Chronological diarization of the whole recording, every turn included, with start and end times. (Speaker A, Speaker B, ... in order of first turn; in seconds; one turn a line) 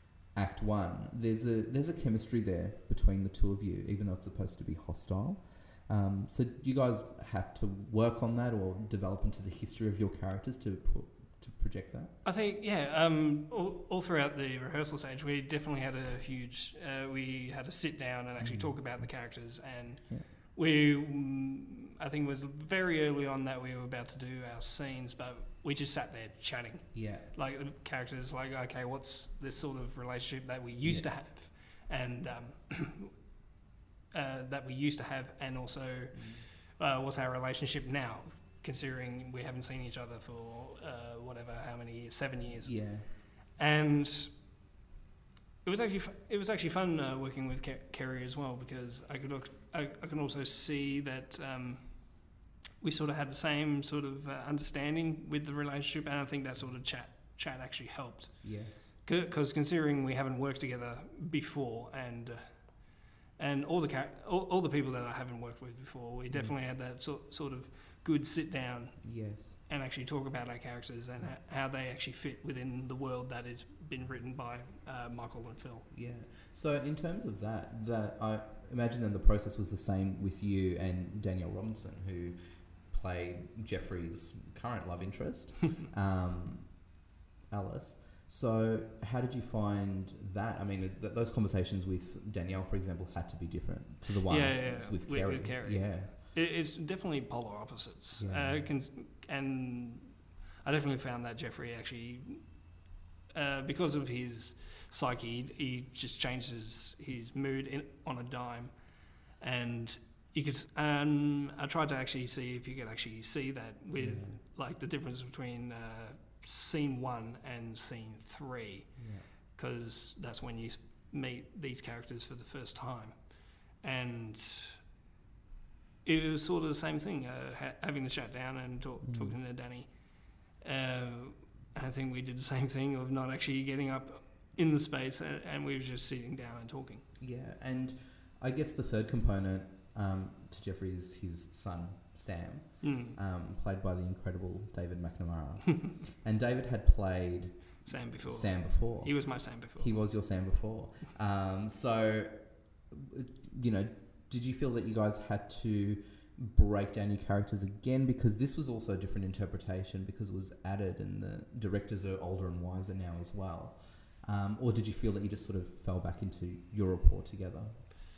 Speaker A: 0.2-12.2
Speaker B: 12.2-33.2
Speaker A: 18.4-19.1
Speaker A: 26.9-27.3
Speaker B: 34.1-44.4
Speaker A: 36.1-36.5
Speaker A: 42.6-43.1
Speaker B: 45.6-52.3
Speaker B: 52.8-69.2
Speaker A: 58.4-59.0
Speaker A: 69.0-69.6
Speaker B: 69.7-75.9
Speaker A: 75.9-82.4
Speaker A: 82.9-86.9
Speaker A: 87.5-96.2
Speaker B: 94.2-102.5
Speaker A: 98.2-98.7
Speaker B: 103.3-108.7
Speaker B: 109.3-118.9
Speaker A: 114.0-114.4
Speaker A: 119.0-119.3
Speaker B: 119.6-124.8
Speaker B: 126.0-137.0
Speaker A: 129.0-129.4
Speaker A: 137.2-152.3
Speaker B: 142.8-143.2
Speaker B: 147.8-150.0
Speaker A: 152.9-167.8